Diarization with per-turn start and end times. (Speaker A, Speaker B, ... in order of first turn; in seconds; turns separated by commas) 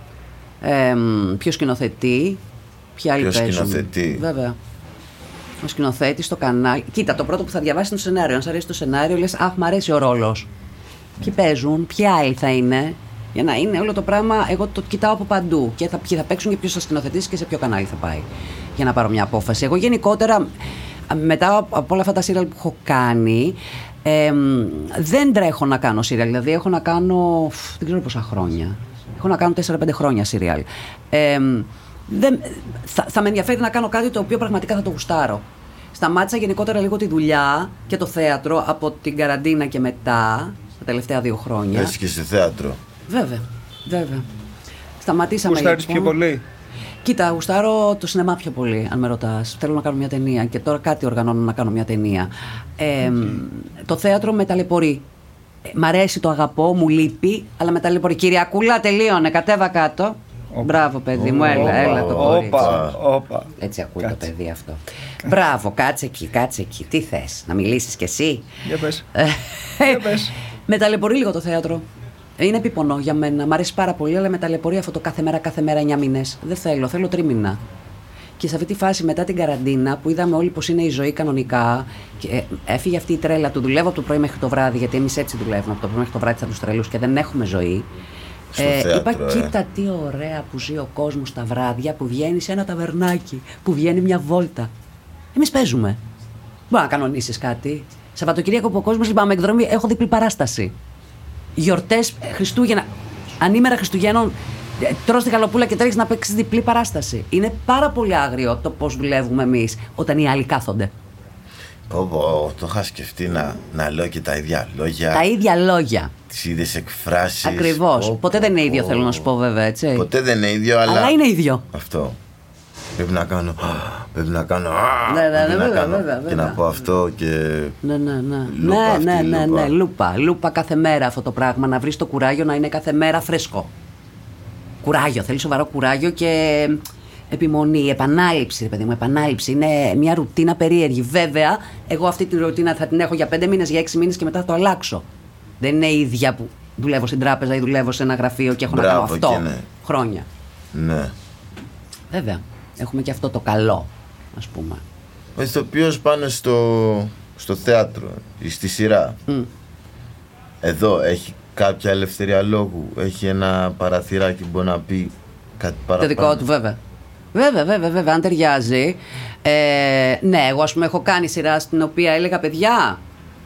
Speaker A: 0.6-2.4, Speaker A: 3.0-4.6, Speaker B: 3.2-4.2, Speaker A: 5.6-10.5, Speaker A: 11.2-20.5, Speaker A: 21.1-41.9, Speaker B: 41.7-42.8, Speaker A: 43.1-44.3, Speaker A: 45.0-46.1, Speaker C: 45.4-46.4, Speaker A: 47.0-55.0, Speaker A: 55.7-62.9, Speaker C: 60.5-60.8, Speaker B: 61.1-63.0, Speaker C: 61.3-63.5, Speaker A: 63.6-68.5, Speaker C: 68.6-69.1, Speaker A: 69.1-71.8, Speaker C: 69.8-70.3, Speaker A: 72.4-77.6, Speaker A: 78.4-87.9, Speaker B: 88.5-89.5, Speaker A: 88.5-94.7, Speaker A: 95.3-96.0, Speaker A: 96.7-100.7, Speaker A: 101.5-102.8, Speaker A: 103.4-110.9, Speaker B: 111.9-115.2, Speaker A: 115.1-116.1, Speaker B: 116.3-119.2, Speaker A: 117.4-120.1, Speaker B: 120.0-121.2, Speaker A: 120.8-121.6, Speaker B: 121.7-122.2, Speaker B: 123.0-127.8, Speaker A: 125.1-126.6, Speaker A: 127.8-133.7, Speaker B: 128.4-129.7, Speaker A: 134.8-145.0, Speaker A: 145.6-150.3, Speaker B: 148.7-149.7, Speaker B: 150.7-151.1, Speaker A: 152.1-154.8, Speaker B: 155.3-159.2, Speaker B: 160.6-166.4, Speaker A: 166.0-166.8, Speaker A: 167.3-173.0